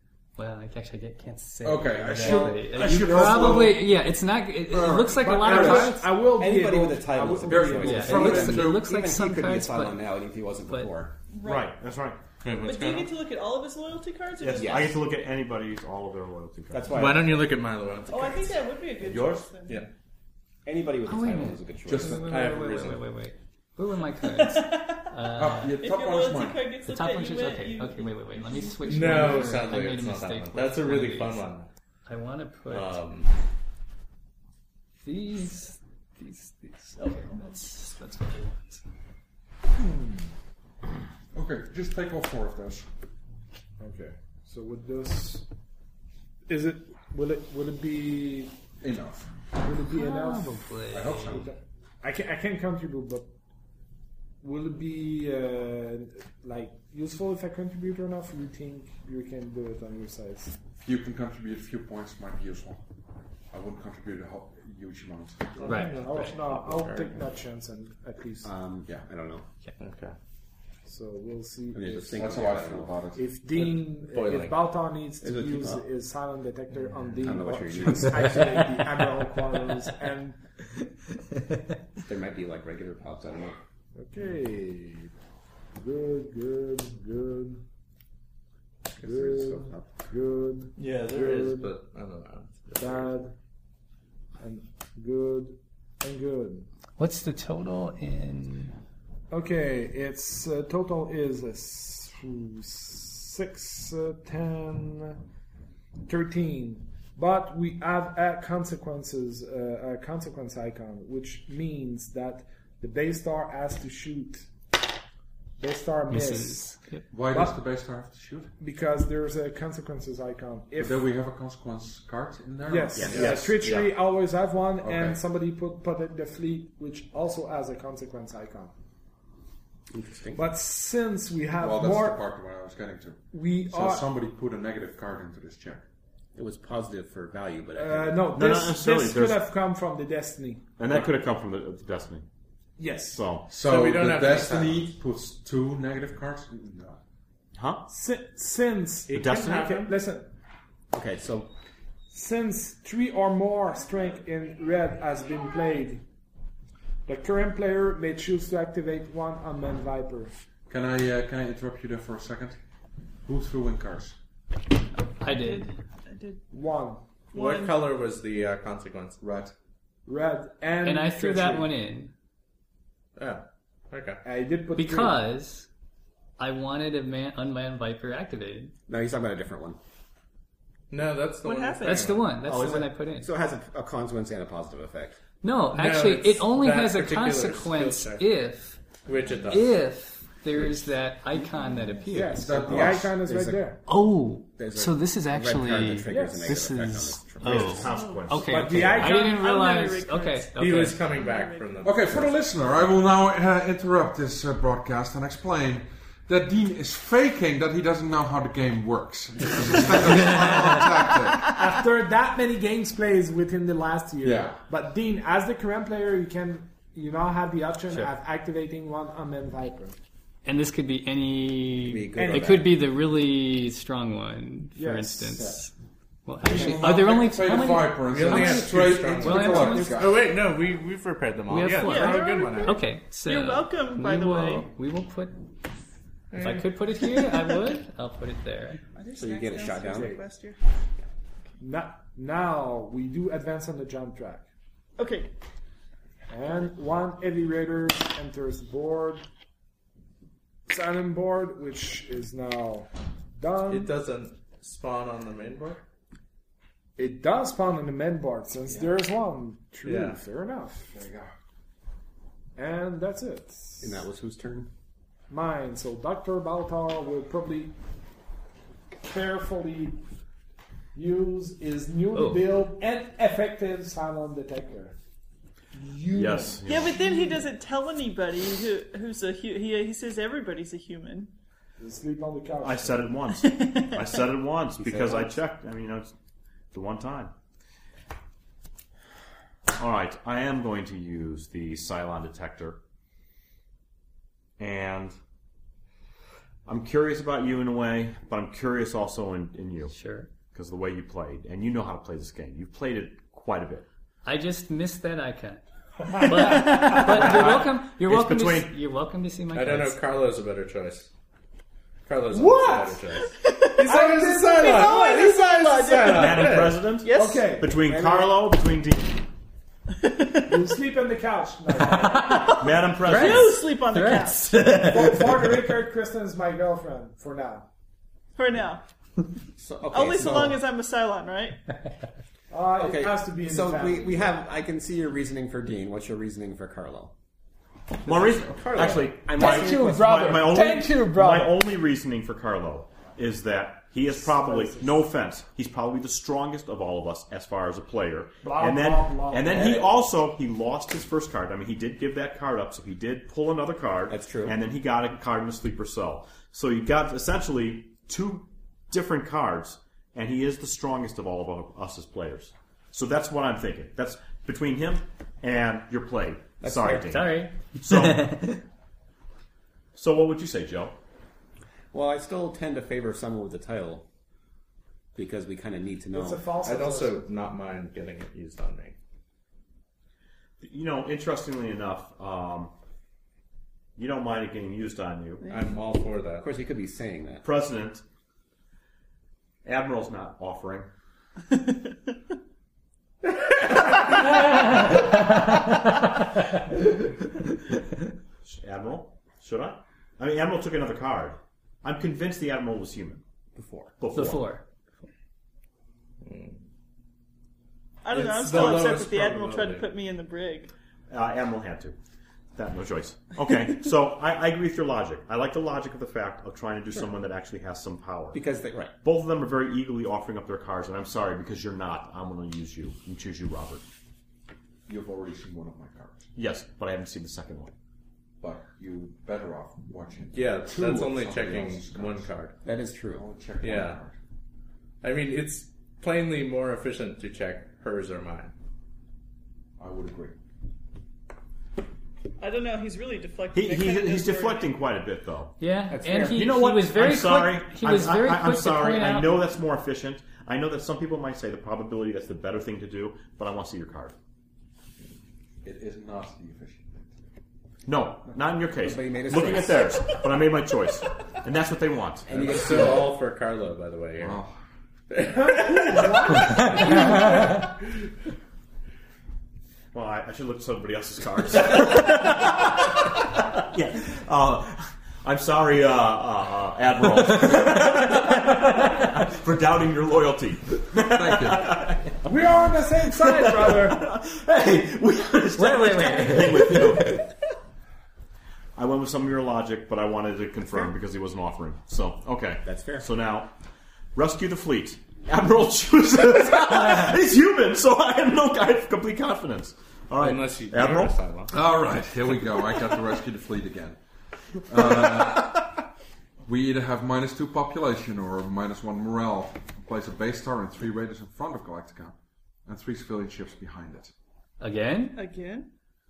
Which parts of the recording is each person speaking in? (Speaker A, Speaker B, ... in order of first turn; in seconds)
Speaker A: 0.4-6.1, 7.8-10.0, 21.1-25.8, 26.9-31.5, 32.1-33.0, 35.0-38.8, 49.9-51.4, 65.7-66.0, 97.0-98.8, 116.1-117.1, 165.2-165.7, 170.8-172.1, 174.8-175.7, 176.4-178.7, 181.8-183.3, 185.4-188.9, 189.4-192.4, 193.9-201.0, 220.5-225.7, 226.2-230.0, 231.5-235.4, 236.3-238.8, 272.1-272.5, 299.9-300.3, 304.2-305.6, 306.1-310.0, 322.0-325.7, 366.9-368.6, 404.1-404.6, 445.6-449.4, 485.6-487.2, 514.6-515.2
Speaker B: 1.6-3.8, 5.5-5.9, 7.5-8.9, 21.9-22.6, 25.3-26.7, 41.3-42.9, 48.8-49.3, 50.9-51.5, 60.8-62.8, 63.5-65.7, 72.0-73.2, 117.1-118.5, 120.8-123.5, 124.8-125.2, 131.6-135.9, 143.5-147.0, 160.7-162.6, 163.2-164.2, 169.2-169.5, 192.2-193.2, 201.8-211.5, 214.2-214.6, 226.4-230.3, 260.9-261.3, 424.9-426.3, 428.4-432.3, 433.1-434.2, 439.8-440.4, 455.6-457.1, 464.2-464.6, 481.1-481.8, 501.5-504.0, 504.6-505.7, 506.4-514.1
Speaker C: 2.1-3.7, 4.9-8.6, 39.8-40.3, 43.8-45.5, 46.5-48.6, 49.6-50.7, 51.3-53.3, 54.4-60.6, 65.6-68.5, 70.9-72.5, 73.1-80.4, 84.0-85.1, 85.8-87.6, 89.0-91.7, 92.8-93.3, 94.4-96.7, 99.3-105.2, 106.1-114.5, 115.6-117.6, 118.6-121.1, 122.7-128.7, 130.3-132.2, 133.3-134.1, 137.8-140.7, 142.8-143.2, 147.9-150.3, 152.1-156.1, 157.1-160.3, 166.5-167.0, 170.1-171.7, 174.2-175.2, 192.1-193.8, 196.0-196.7, 198.4-199.4, 211.4-220.0, 222.1-222.7, 224.8-225.6, 229.5-230.0, 239.9-240.2, 241.6-244.5, 246.3-249.2, 250.7-253.9, 257.0-261.0, 262.6-264.0, 265.3-267.8, 269.0-270.0, 270.9-275.0, 275.7-277.5, 281.8-283.2, 306.1-306.9, 312.3-313.0, 313.8-316.1, 317.1-318.1, 320.5-322.5, 324.8-327.7, 332.5-334.4, 339.3-341.7, 344.1-345.1, 348.4-349.9, 376.1-377.3, 465.2-467.8, 482.2-484.1
Speaker D: 5.5-11.2, 14.5-15.0, 16.7-17.5, 20.6-22.2, 68.4-69.5, 71.7-73.1, 75.2-75.8, 77.2-78.7, 82.0-83.6, 89.0-89.9, 123.2-123.5, 129.9-130.4, 136.3-138.3, 150.9-151.5, 178.9-179.8, 182.4-185.2, 192.7-193.8, 194.6-197.9, 221.8-222.8, 239.2-240.2, 263.8-264.7, 284.8-285.4, 317.9-318.4, 329.6-330.6, 332.8-337.1, 338.1-340.3, 349.6-349.9, 354.1-354.6, 366.6-367.1, 371.9-374.1, 375.1-376.5, 386.4-387.4, 403.6-404.0, 418.3-418.9, 432.6-433.3, 445.9-446.5, 458.8-460.0, 462.3-463.1, 492.6-493.1
Speaker E: 11.3-11.8, 12.6-15.0, 18.1-19.9, 24.2-25.1, 25.8-29.4, 164.9-166.4, 167.3-167.8, 181.4-182.2, 197.8-202.1, 231.8-234.7, 238.9-240.6, 245.0-245.3, 276.7-281.3, 283.4-284.1, 313.4-313.9, 314.5-317.6, 320.0-320.6, 323.1-324.7, 328.4-328.8, 329.9-331.6, 385.4-385.7, 408.0-410.7, 442.4-444.8, 515.1-515.7
Speaker F: 11.4-12.2, 14.4-17.0, 19.0-19.5, 123.0-123.9, 138.3-139.4, 140.8-142.3, 143.1-143.5, 147.5-147.9, 149.1-149.8, 197.4-199.1, 276.1-277.0, 282.6-286.1, 286.7-287.3, 289.8-292.8, 294.6-295.1, 296.7-299.9, 300.5-303.9, 306.9-308.8, 316.1-319.2, 322.5-323.7, 338.1-368.4, 369.9-370.9, 380.6-382.7, 384.0-385.4, 387.4-388.0, 389.6-390.9, 398.4-403.2, 404.0-404.6, 411.1-412.0, 412.6-418.4, 419.0-423.8, 426.4-427.7, 443.5-445.6, 446.3-454.1, 457.9-462.5, 469.9-487.3, 488.8-493.5, 494.1-501.1
Speaker G: 12.4-13.1, 16.9-18.6, 22.3-23.1, 28.9-31.7, 32.7-33.3, 65.6-67.2, 69.8-70.2, 73.5-74.7, 90.8-93.1, 143.6-144.9, 149.1-149.9, 167.3-169.2, 173.2-174.2, 180.9-182.3, 185.7-188.3, 189.1-189.8, 200.6-202.3, 228.1-232.8, 236.3-236.7, 253.7-255.8, 259.8-260.2, 309.5-311.1, 312.1-316.9, 338.6-339.1, 376.6-379.0, 385.5-386.5, 406.2-406.6, 408.1-409.9, 430.3-432.5, 433.6-434.0, 435.0-438.5, 462.3-464.4, 465.1-466.9, 500.2-501.6